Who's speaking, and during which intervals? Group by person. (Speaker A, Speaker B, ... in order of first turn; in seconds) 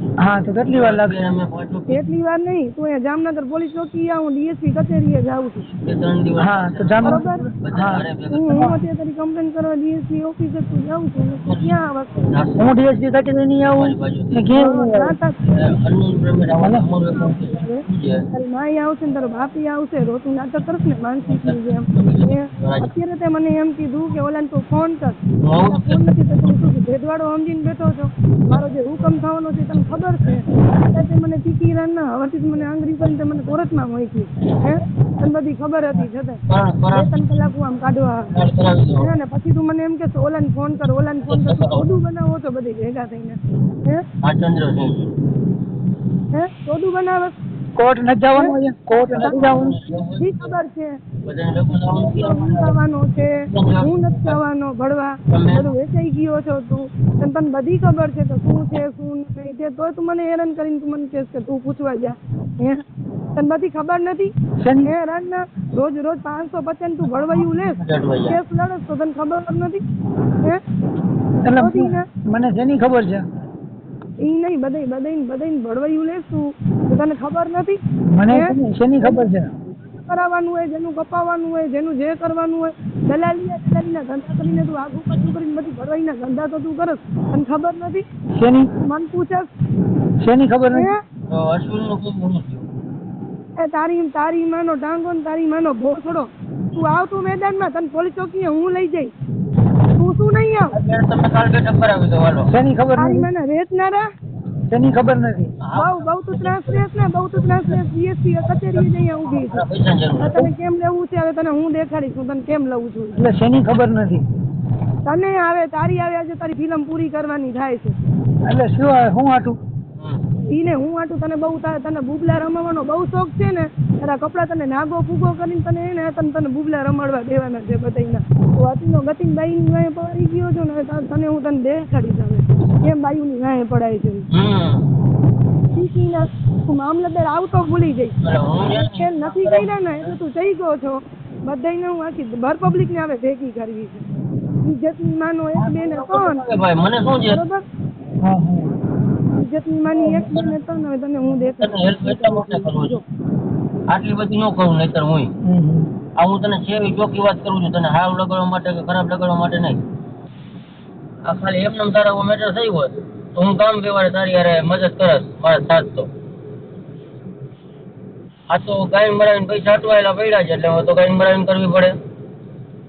Speaker A: 0.2-1.2, 6.4-8.0, 12.6-15.2, 16.6-16.9, 47.8-49.8, 64.6-64.9, 71.4-73.3, 78.1-79.5, 88.4-88.7, 90.2-90.9, 102.5-103.3, 104.7-105.5, 113.2-114.2, 118.5-119.6, 148.2-148.8, 155.4-155.9
Speaker B: 0.7-2.0, 5.7-8.7, 11.3-13.1, 13.7-14.6, 15.4-18.2, 21.3-22.9, 25.4-26.6, 29.9-30.4, 36.5-37.2, 38.3-39.1, 41.3-41.9, 44.2-45.1, 49.1-50.6, 51.2-52.8, 53.5-54.4, 55.3-55.7, 67.0-68.4, 91.3-92.7, 100.7-102.5, 105.6-107.9, 108.4-110.4, 120.0-120.2, 134.3-134.9, 138.2-140.1, 145.6-147.4, 150.0-150.5, 151.4-153.0, 153.9-155.3, 156.2-159.8, 161.2-166.1, 168.5-172.0
Speaker C: 1.9-5.7, 7.0-7.4, 8.3-12.3, 14.5-15.3, 17.2-36.4, 36.9-38.3, 39.0-44.0, 46.3-47.4, 49.1-49.5, 50.2-51.0, 51.9-62.8, 63.4-64.3, 64.8-69.8, 71.6-72.0, 74.2-88.0, 88.8-89.5, 90.7-91.0, 93.6-99.1, 100.0-100.7, 103.0-104.1, 105.8-109.6, 110.2-113.3, 115.1-118.0, 120.5-134.3, 135.7-138.2, 138.7-144.0, 144.6-146.4, 147.3-147.6, 149.3-153.0